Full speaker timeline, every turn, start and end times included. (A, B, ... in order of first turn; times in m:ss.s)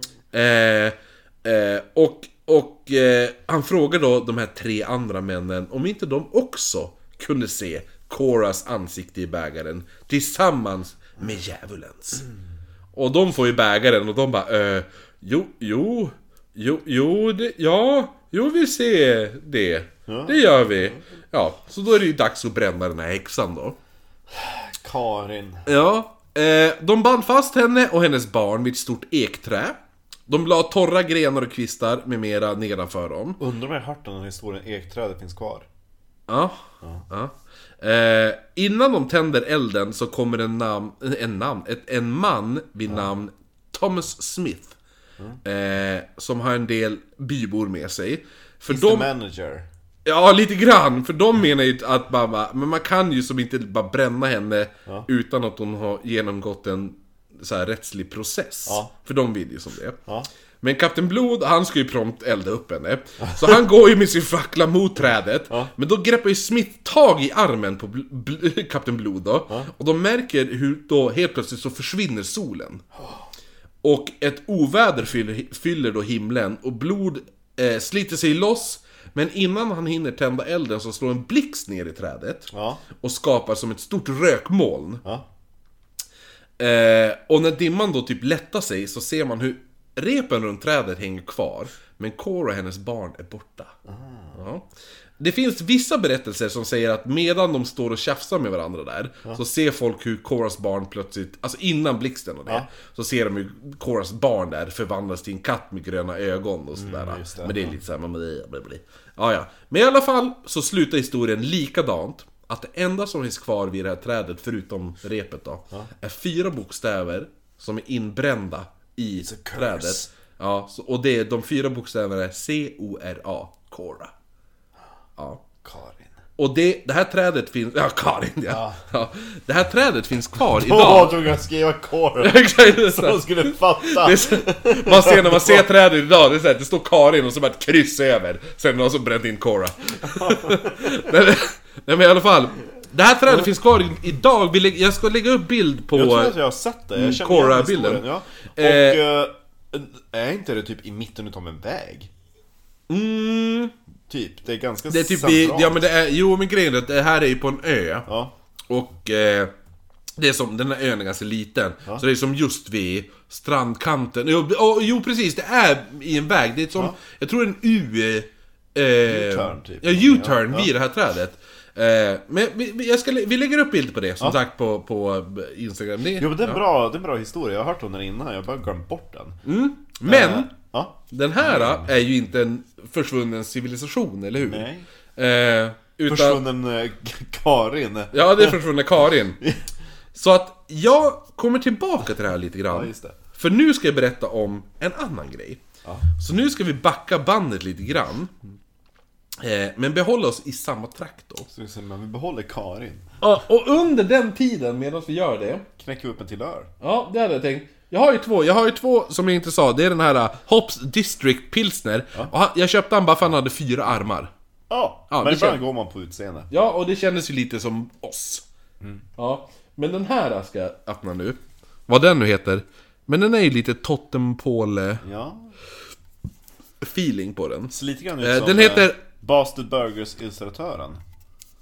0:00.3-0:12.2 A
0:12.9-0:23.8 A
0:20.1-0:20.7 B
0:24.3-0:25.7 B
0:25.7-0:33.4 A
0:33.4-0:35.7 B
0:36.3-0:44.7 A
0:45.4-0:49.1 A
0:48.7-0:49.7 B
0:50.0-1:00.0 A
1:00.6-1:12.8 A
1:13.8-1:25.0 A
1:22.5-1:22.8 B
1:26.6-1:33.7 A
1:33.8-1:34.4 B
1:34.4-1:34.6 A
1:35.2-2:04.1 A
1:46.8-1:47.8 B
1:59.2-2:00.1 B
2:05.2-2:05.4 A
2:05.6-2:06.2 B
2:06.4-2:11.2 A
2:08.5-2:08.8 B
2:10.6-2:15.6 B
2:12.2-2:26.3 A
2:20.1-2:20.9 B
2:25.9-2:32.1 B
2:26.9-2:28.0 A
2:28.6-2:29.0 A
2:32.9-2:33.7 A
2:34.1-2:35.8 B
2:34.9-2:38.1 A
2:38.1-2:38.3 B
2:38.7-2:39.5 A
2:40.2-2:56.6 A
2:49.0-2:50.7 B
2:56.2-2:59.4 B
2:59.4-3:00.5 A
3:00.0-3:01.9 B
3:01.1-3:06.4 A
3:04.4-3:04.9 B
3:06.0-3:08.6 B
3:08.1-3:09.4 A
3:10.1-3:15.6 A
3:12.7-3:13.2 B
3:16.2-3:18.3 A
3:19.4-3:21.5 A
3:21.5-3:23.1 B
3:23.2-3:25.6 A
3:25.8-3:26.7 B
3:26.8-3:34.3 A
3:34.7-3:36.5 B
3:35.1-3:35.6 A
3:36.5-3:38.4 A
3:39.2-3:45.0 A
3:45.0-3:45.5 B
3:46.8-3:49.0 A
3:47.7-3:51.0 B